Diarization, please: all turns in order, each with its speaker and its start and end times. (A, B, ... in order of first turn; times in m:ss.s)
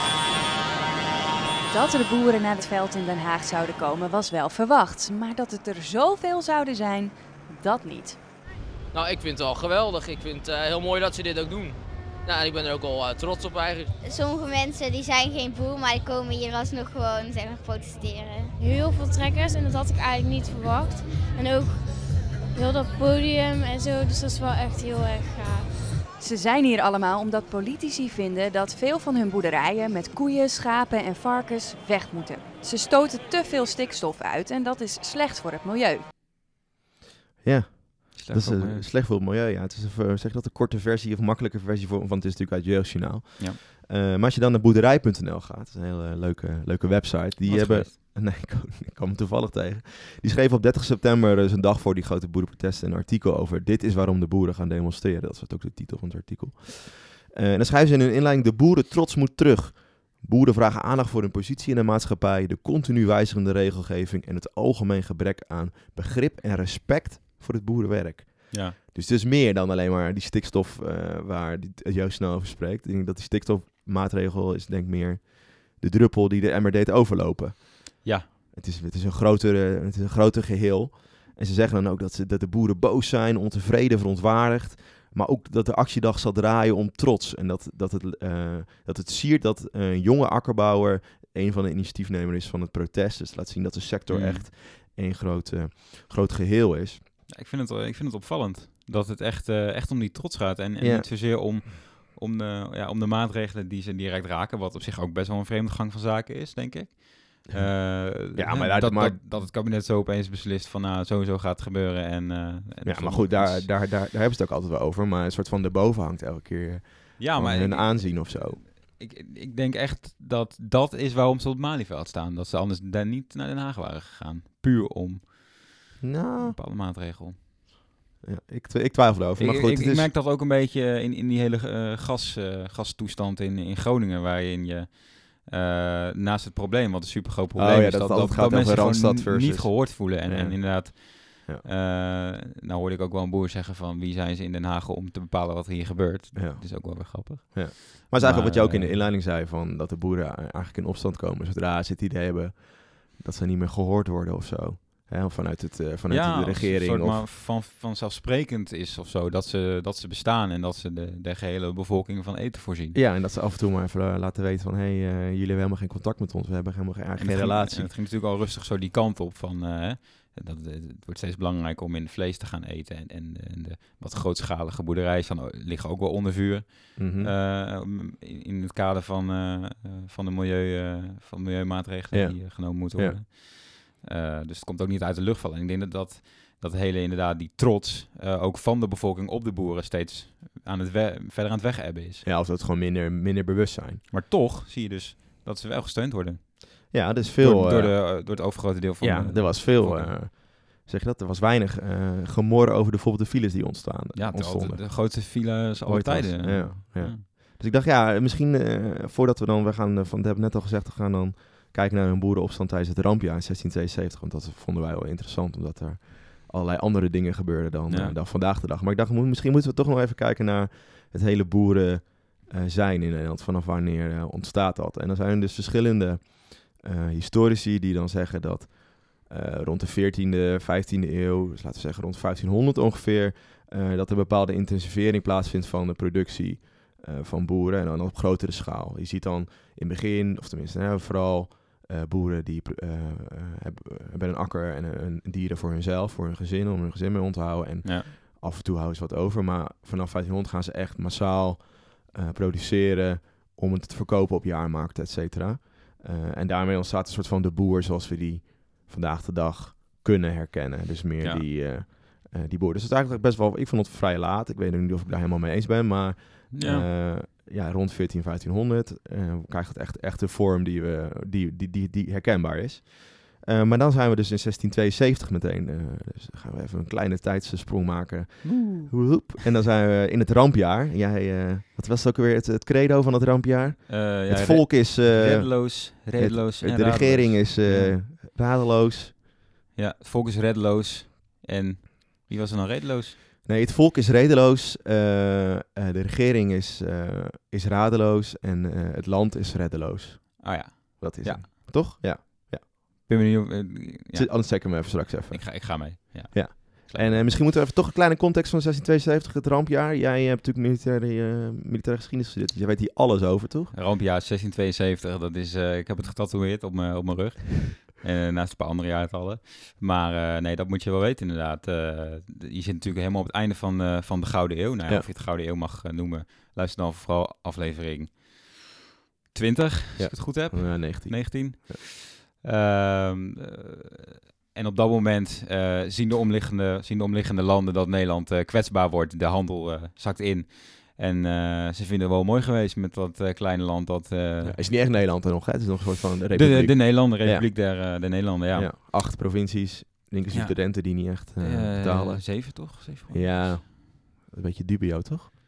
0:01.7-0:08.2 A
0:08.9-0:13.9 B
0:14.0-0:18.5 C
0:18.6-0:21.8 D
0:22.5-0:25.7 D
0:26.2-0:36.0 A
0:37.4-1:37.0 E
0:38.2-0:38.8 F
0:47.4-0:47.9 F
1:08.5-1:08.8 F
1:34.1-1:34.4 F
1:37.3-1:53.7 F
1:40.8-1:41.5 E
1:47.5-1:49.5 E
1:52.8-1:58.6 E
1:57.2-2:05.7 F
2:06.0-2:06.6 E
2:06.4-2:07.4 F
2:08.2-2:10.1 E
2:09.4-2:29.0 F
2:17.6-2:21.6 E
2:26.3-2:37.2 E
2:36.1-2:43.0 F
2:42.9-2:47.9 E
2:47.2-3:12.2 F
2:57.0-2:57.3 E
3:02.1-3:03.2 E
3:12.2-3:14.0 E
3:14.1-3:20.1 F
3:16.9-3:18.1 E
3:19.0-4:49.2 E
3:24.2-3:27.2 F
3:37.9-3:38.1 F
4:07.8-4:08.1 F
4:26.5-4:26.9 F
4:38.4-4:39.2 F
4:43.9-4:48.0 F
4:49.8-4:53.2 F
4:53.4-5:03.1 E
5:00.4-5:01.5 F
5:03.1-5:07.3 F
5:04.1-5:13.7 E
5:13.7-5:28.6 F
5:29.3-5:44.6 F
5:30.0-5:31.8 E
5:44.4-5:55.3 E
5:46.3-5:48.7 F
5:50.3-5:53.6 F